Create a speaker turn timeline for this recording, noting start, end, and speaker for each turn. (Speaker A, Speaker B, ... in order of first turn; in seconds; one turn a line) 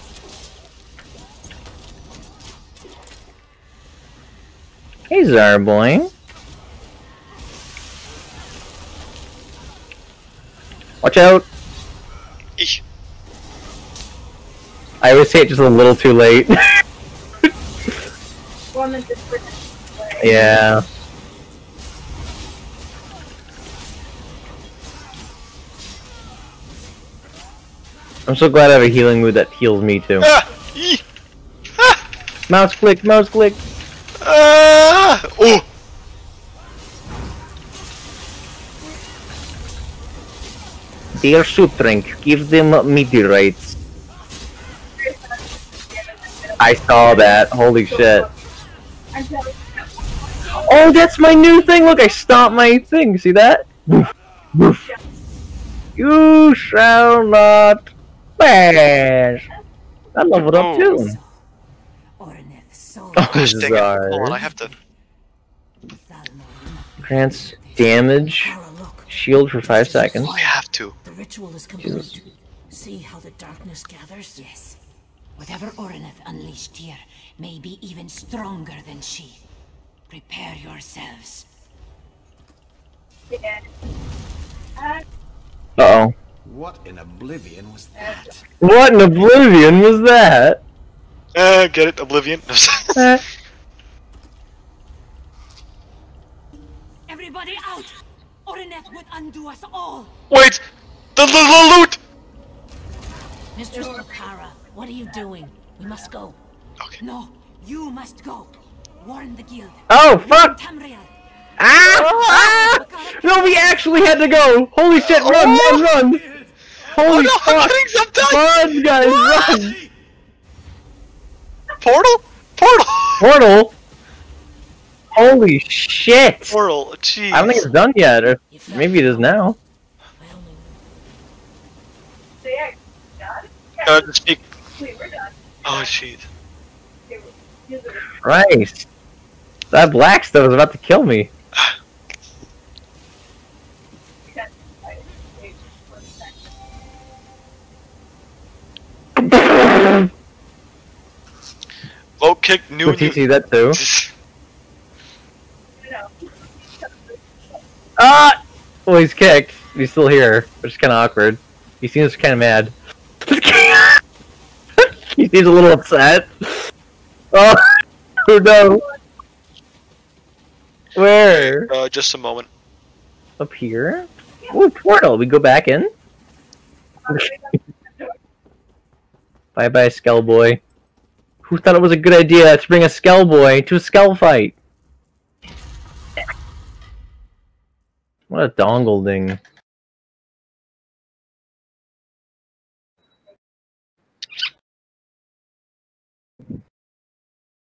Speaker A: 5.1-6.1
Speaker A: 11.0-11.5
Speaker A: 15.0-16.8
Speaker B: 18.7-20.4
Speaker A: 20.2-20.8
Speaker A: 28.3-30.3
Speaker C: 30.2-31.0
Speaker A: 32.5-33.6
Speaker C: 34.2-35.6
Speaker A: 41.1-43.8
Speaker B: 45.0-48.5
Speaker A: 46.6-48.3
Speaker B: 49.1-51.1
Speaker D: 50.6-52.8
Speaker A: 50.7-54.9
Speaker A: 56.0-59.5
Speaker A: 60.1-61.2
Speaker C: 60.5-61.0
Speaker D: 60.8-61.4
Speaker D: 62.2-63.9
Speaker A: 63.2-64.4
Speaker C: 63.2-64.7
Speaker D: 64.4-64.8
Speaker D: 65.9-74.8
Speaker A: 67.0-68.5
Speaker A: 69.1-70.3
Speaker C: 70.3-71.0
Speaker A: 71.8-72.1
Speaker D: 75.4-79.4
Speaker D: 80.1-81.5
Speaker B: 83.3-83.7
Speaker B: 84.8-85.0
Speaker A: 85.8-86.1
Speaker E: 86.5-88.4
Speaker B: 88.0-88.4
Speaker A: 88.6-90.6
Speaker C: 91.3-93.2
Speaker A: 93.0-93.2
Speaker D: 97.1-100.2
Speaker C: 100.3-100.6
Speaker C: 101.2-102.0
Speaker D: 103.5-106.4
Speaker B: 103.7-104.2
Speaker D: 107.0-114.3
Speaker A: 109.9-110.6
Speaker A: 111.6-116.2
Speaker C: 115.1-115.9
Speaker E: 116.0-117.0
Speaker A: 116.9-119.8
Speaker C: 117.0-118.5
Speaker E: 118.6-119.9
Speaker C: 121.8-123.3
Speaker A: 123.2-123.7
Speaker A: 125.2-126.6
Speaker C: 126.5-127.7
Speaker A: 127.3-129.6
Speaker D: 128.5-129.4
Speaker D: 130.2-130.9
Speaker B: 132.4-134.1
Speaker C: 133.8-134.4
Speaker B: 134.8-135.9
Speaker C: 135.7-136.2
Speaker B: 137.1-138.1
Speaker A: 138.2-138.9
Speaker A: 139.7-141.3
Speaker B: 144.2-146.5
Speaker A: 149.2-150.1
Speaker C: 152.2-153.2
Speaker A: 152.8-153.8
Speaker C: 153.7-154.1
Speaker B: 155.8-157.6
Speaker A: 158.0-162.7
Speaker A: 163.2-164.0
Speaker A: 164.8-166.7
Speaker A: 167.3-168.8
Speaker A: 170.9-171.7
Speaker C: 171.3-172.5
Speaker A: 173.4-175.9
Speaker B: 177.0-178.2
Speaker A: 179.6-180.6
Speaker A: 181.4-184.6
Speaker A: 188.3-189.4